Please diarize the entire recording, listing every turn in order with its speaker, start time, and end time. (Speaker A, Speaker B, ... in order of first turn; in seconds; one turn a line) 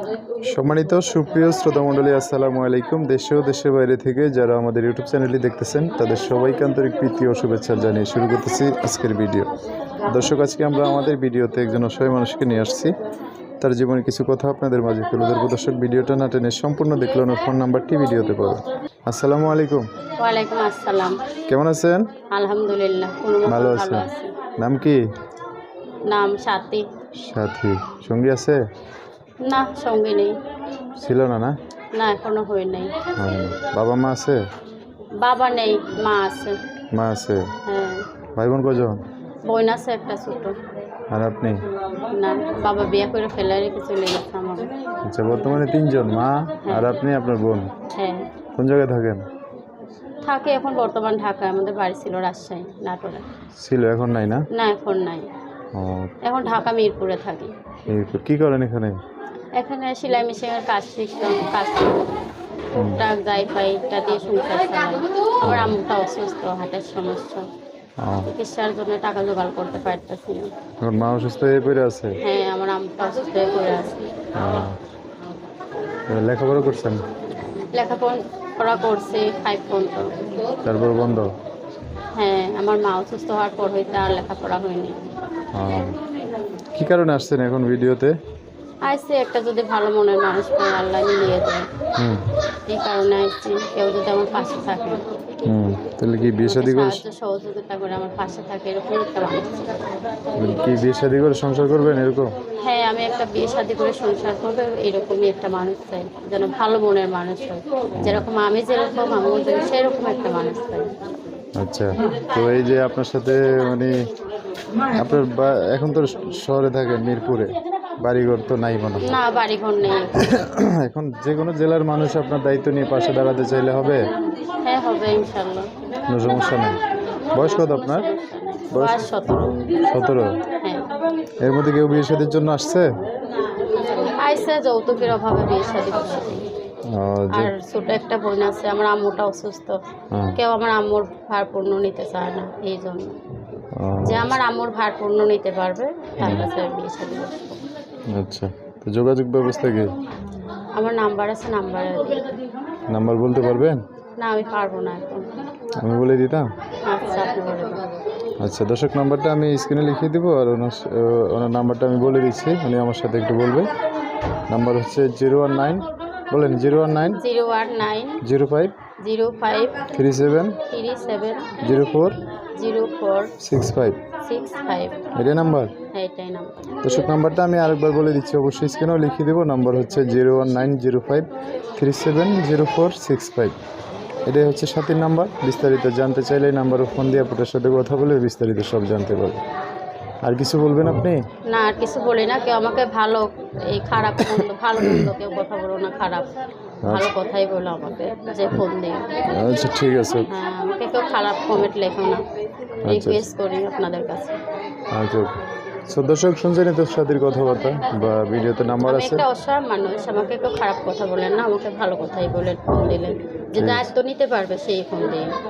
Speaker A: 0.5-9.5
Speaker A: 10.1-12.9
Speaker A: 13.6-19.8
Speaker B: 20.2-21.2
Speaker A: 21.5-22.1
Speaker B: 22.3-24.3
Speaker A: 23.4-24.1
Speaker A: 24.6-25.0
Speaker B: 26.1-26.9
Speaker A: 27.2-28.6
Speaker B: 29.4-30.3
Speaker A: 31.0-31.5
Speaker B: 31.9-32.9
Speaker A: 33.2-34.4
Speaker B: 35.2-36.6
Speaker A: 36.9-37.5
Speaker B: 37.7-38.0
Speaker A: 38.3-39.0
Speaker B: 39.5-40.6
Speaker A: 41.1-41.6
Speaker B: 42.1-44.7
Speaker A: 45.1-47.7
Speaker B: 47.9-48.2
Speaker A: 48.6-49.2
Speaker B: 50.2-53.2
Speaker A: 53.6-54.5
Speaker B: 54.5-55.3
Speaker A: 55.7-56.1
Speaker B: 56.2-57.5
Speaker A: 57.9-59.0
Speaker B: 59.5-62.1
Speaker B: 62.7-67.5
Speaker A: 62.8-63.0
Speaker A: 65.4-65.8
Speaker A: 68.0-68.3
Speaker B: 68.3-70.5
Speaker A: 70.8-72.2
Speaker B: 72.2-74.0
Speaker A: 74.3-74.8
Speaker A: 76.1-77.0
Speaker B: 77.7-80.2
Speaker A: 80.6-81.3
Speaker B: 82.1-85.0
Speaker A: 85.5-86.0
Speaker A: 86.7-88.1
Speaker B: 88.8-91.7
Speaker A: 92.0-92.2
Speaker B: 92.7-95.0
Speaker A: 95.5-97.0
Speaker B: 96.4-99.8
Speaker A: 100.4-102.3
Speaker B: 102.6-110.9
Speaker A: 108.0-108.3
Speaker A: 111.6-113.9
Speaker A: 114.9-119.2
Speaker B: 119.0-120.2
Speaker A: 120.2-124.0
Speaker B: 124.6-125.7
Speaker A: 126.1-126.8
Speaker A: 127.3-128.1
Speaker B: 127.4-129.7
Speaker A: 128.7-129.1
Speaker A: 129.8-130.4
Speaker A: 131.4-132.9
Speaker B: 133.7-136.4
Speaker A: 136.9-137.5
Speaker B: 137.3-139.8
Speaker A: 140.1-140.4
Speaker B: 140.3-143.2
Speaker A: 143.8-144.3
Speaker B: 144.0-147.6
Speaker A: 146.2-146.5
Speaker A: 148.1-149.9
Speaker B: 150.8-152.3
Speaker A: 152.9-153.8
Speaker B: 154.2-155.2
Speaker A: 155.8-156.5
Speaker B: 156.8-157.8
Speaker A: 158.4-163.7
Speaker A: 164.5-167.2
Speaker B: 167.2-168.2
Speaker A: 168.2-168.7
Speaker B: 169.0-169.8
Speaker A: 169.9-170.6
Speaker B: 170.7-171.5
Speaker A: 171.6-172.2
Speaker B: 172.6-173.3
Speaker A: 173.4-174.0
Speaker B: 174.2-175.0
Speaker A: 175.2-175.7
Speaker B: 175.9-176.7
Speaker A: 176.8-183.6
Speaker A: 184.2-189.4
Speaker A: 190.2-191.2
Speaker B: 191.5-196.3
Speaker A: 194.3-195.1
Speaker A: 196.8-197.1
Speaker B: 196.9-199.1
Speaker A: 199.3-200.3
Speaker B: 200.3-202.2
Speaker A: 202.8-203.3
Speaker B: 202.8-204.4
Speaker A: 204.9-205.4
Speaker A: 205.9-209.2
Speaker B: 208.8-215.3
Speaker A: 213.5-213.9